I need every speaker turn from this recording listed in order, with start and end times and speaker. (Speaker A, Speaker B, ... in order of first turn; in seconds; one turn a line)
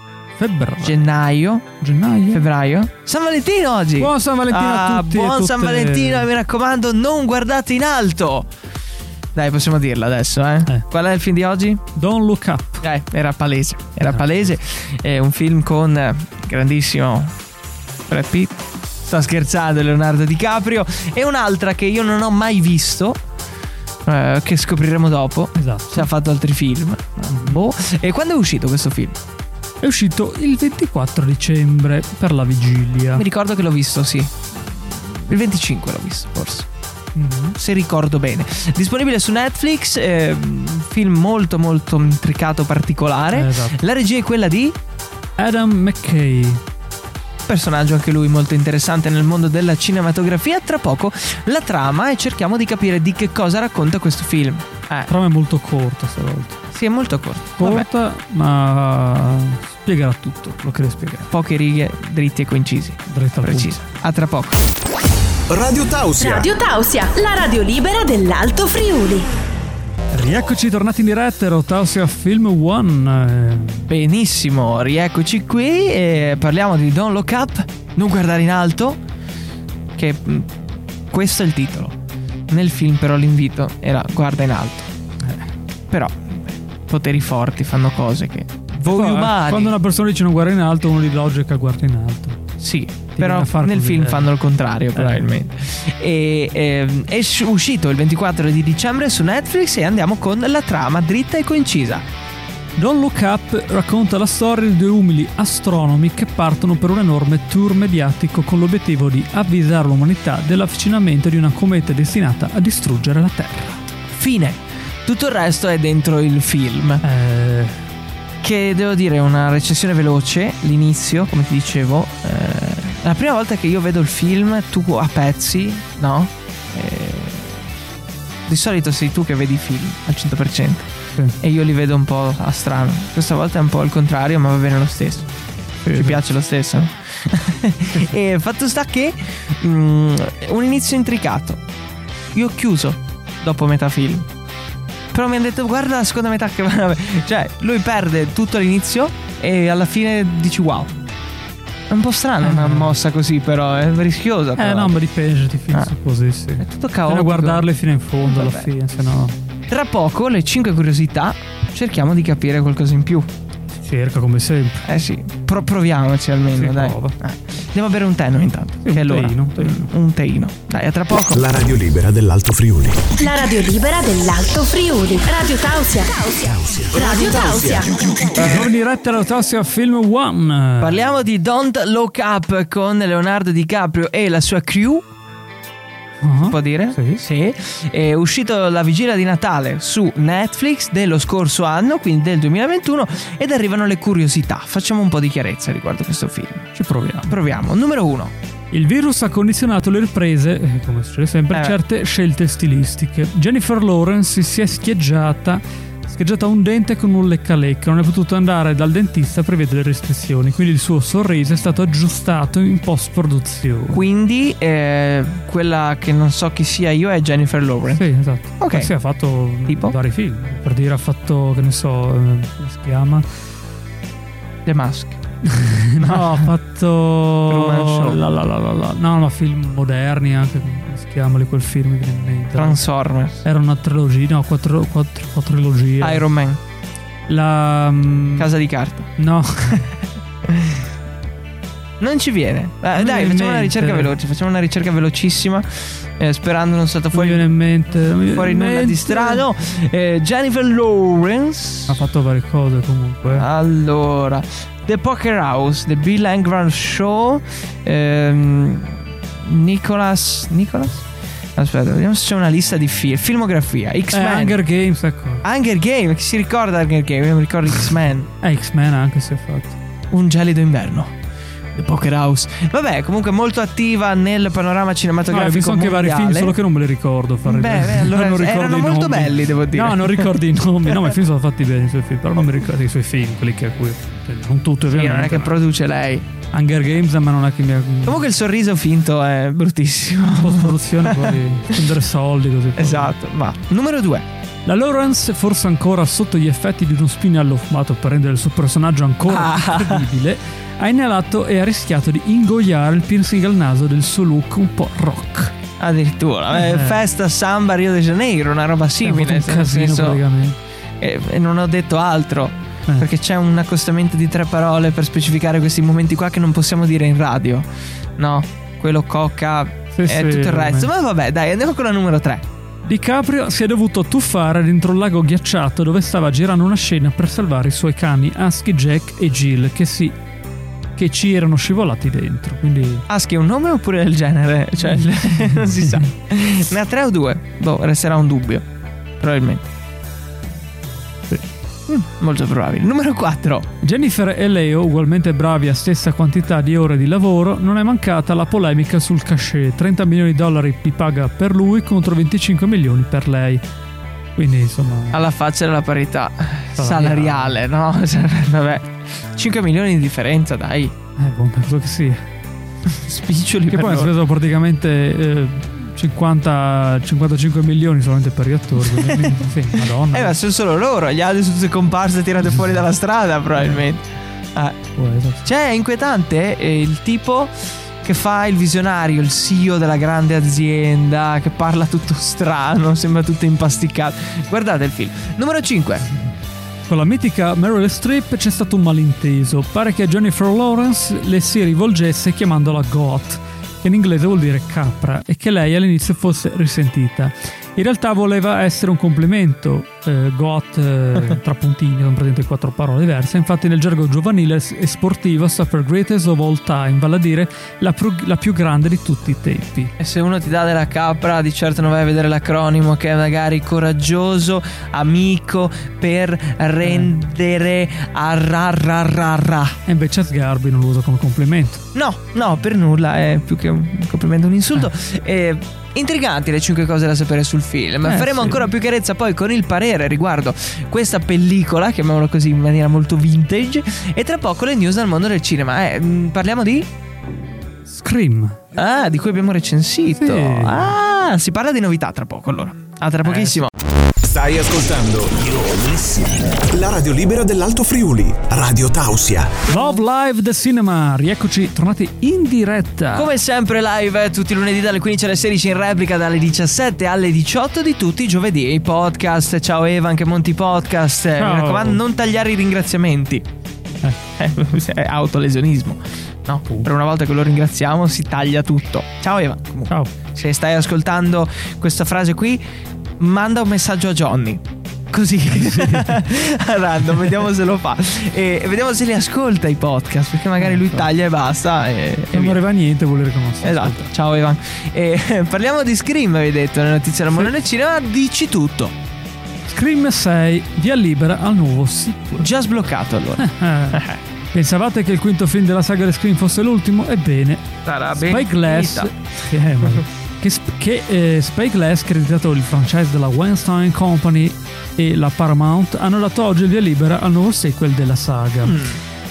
Speaker A: 0.4-1.1
Speaker B: 0.8-1.7
Speaker A: 1.8-2.5
Speaker B: 2.3-8.5
Speaker A: 4.0-6.3
Speaker B: 9.3-11.8
Speaker A: 11.9-12.8
Speaker B: 12.8-17.4
Speaker A: 14.1-14.5
Speaker B: 18.1-23.2
Speaker B: 24.1-29.2
Speaker A: 25.6-26.1
Speaker A: 27.3-27.6
Speaker A: 29.8-33.2
Speaker B: 33.1-36.7
Speaker A: 37.2-37.6
Speaker B: 37.6-44.8
Speaker A: 43.3-43.8
Speaker A: 45.4-46.6
Speaker B: 47.5-55.1
Speaker A: 55.1-56.6
Speaker B: 56.7-57.9
Speaker A: 57.6-61.3
Speaker B: 61.3-64.6
Speaker A: 63.1-63.7
Speaker C: 65.5-66.5
Speaker D: 66.2-69.3
Speaker A: 70.1-73.9
Speaker B: 73.9-79.0
Speaker B: 80.0-80.5
Speaker B: 81.1-82.0
Speaker B: 82.5-84.9
Speaker B: 85.9-89.7
Speaker A: 88.9-92.4
Speaker B: 92.6-102.0
Speaker A: 93.2-94.3
Speaker A: 95.0-95.2
Speaker A: 102.8-113.8
Speaker B: 114.1-117.0
Speaker A: 117.0-117.8
Speaker B: 118.4-127.6
Speaker B: 128.5-135.3
Speaker A: 135.9-136.2
Speaker B: 135.9-141.6
Speaker B: 142.3-144.3
Speaker B: 145.1-150.9
Speaker B: 151.9-155.0
Speaker A: 152.4-153.0
Speaker A: 154.6-159.3
Speaker B: 156.6-157.7
Speaker B: 158.2-158.7
Speaker B: 159.7-163.3
Speaker A: 163.8-164.8
Speaker B: 164.8-171.4
Speaker A: 166.6-167.2
Speaker A: 168.8-169.9
Speaker C: 171.3-173.1
Speaker D: 173.2-177.9
Speaker C: 176.4-178.6
Speaker A: 178.4-181.1
Speaker B: 180.8-185.1
Speaker A: 186.2-187.2
Speaker B: 186.4-196.7
Speaker A: 196.8-197.3
Speaker B: 197.3-198.3
Speaker A: 198.7-214.0
Speaker B: 201.5-201.8
Speaker B: 213.9-218.0
Speaker A: 217.9-223.3
Speaker B: 218.6-218.9
Speaker B: 219.7-219.9
Speaker B: 224.7-225.2
Speaker A: 225.4-232.8
Speaker B: 226.0-226.5
Speaker B: 227.5-228.2
Speaker B: 232.6-233.4
Speaker A: 233.4-236.3
Speaker B: 236.0-236.6
Speaker A: 237.3-238.5
Speaker B: 238.4-239.1
Speaker A: 239.2-239.9
Speaker B: 240.4-240.8
Speaker B: 242.0-247.5
Speaker A: 242.9-244.1
Speaker A: 247.1-249.4
Speaker B: 248.2-252.0
Speaker A: 251.9-253.5
Speaker B: 253.3-261.0
Speaker B: 261.6-264.6
Speaker A: 264.1-265.4
Speaker B: 265.4-268.3
Speaker A: 268.4-269.8
Speaker B: 270.1-271.1
Speaker B: 271.8-276.6
Speaker A: 275.3-285.6
Speaker B: 277.5-280.4
Speaker B: 284.9-286.2
Speaker A: 286.5-288.2
Speaker B: 288.1-291.8
Speaker A: 290.3-293.1
Speaker B: 292.8-294.3
Speaker A: 294.7-305.6
Speaker B: 299.3-300.1
Speaker B: 305.8-310.2
Speaker A: 306.5-307.0
Speaker A: 309.0-310.6
Speaker B: 311.0-317.7
Speaker B: 318.2-322.4
Speaker A: 319.9-320.9
Speaker A: 322.9-330.1
Speaker A: 331.0-333.1
Speaker B: 333.1-338.6
Speaker A: 335.0-336.0
Speaker B: 339.2-339.6
Speaker B: 341.9-343.7
Speaker A: 343.8-353.6
Speaker A: 354.4-355.2
Speaker B: 355.1-360.9
Speaker A: 356.8-357.6
Speaker A: 361.2-362.2
Speaker B: 362.9-364.1
Speaker A: 363.7-370.4
Speaker B: 368.8-374.0
Speaker A: 373.6-373.8
Speaker B: 374.6-374.8
Speaker A: 375.0-375.4
Speaker B: 375.4-386.1
Speaker A: 386.9-409.9
Speaker B: 410.0-419.8
Speaker A: 416.8-417.1
Speaker A: 419.9-421.8
Speaker B: 421.9-436.9
Speaker A: 428.0-428.7
Speaker A: 437.9-438.6
Speaker B: 438.8-443.7
Speaker A: 440.2-440.9
Speaker A: 443.2-443.6
Speaker C: 444.2-449.6
Speaker A: 449.7-453.3
Speaker B: 453.1-463.4
Speaker A: 461.4-462.0
Speaker B: 464.4-472.6
Speaker B: 473.2-482.6
Speaker A: 475.5-476.2
Speaker A: 480.6-481.1
Speaker A: 482.3-484.1
Speaker B: 483.6-488.9
Speaker A: 489.7-492.5
Speaker B: 492.4-494.2
Speaker A: 493.4-508.8
Speaker B: 497.9-499.1
Speaker B: 508.6-509.0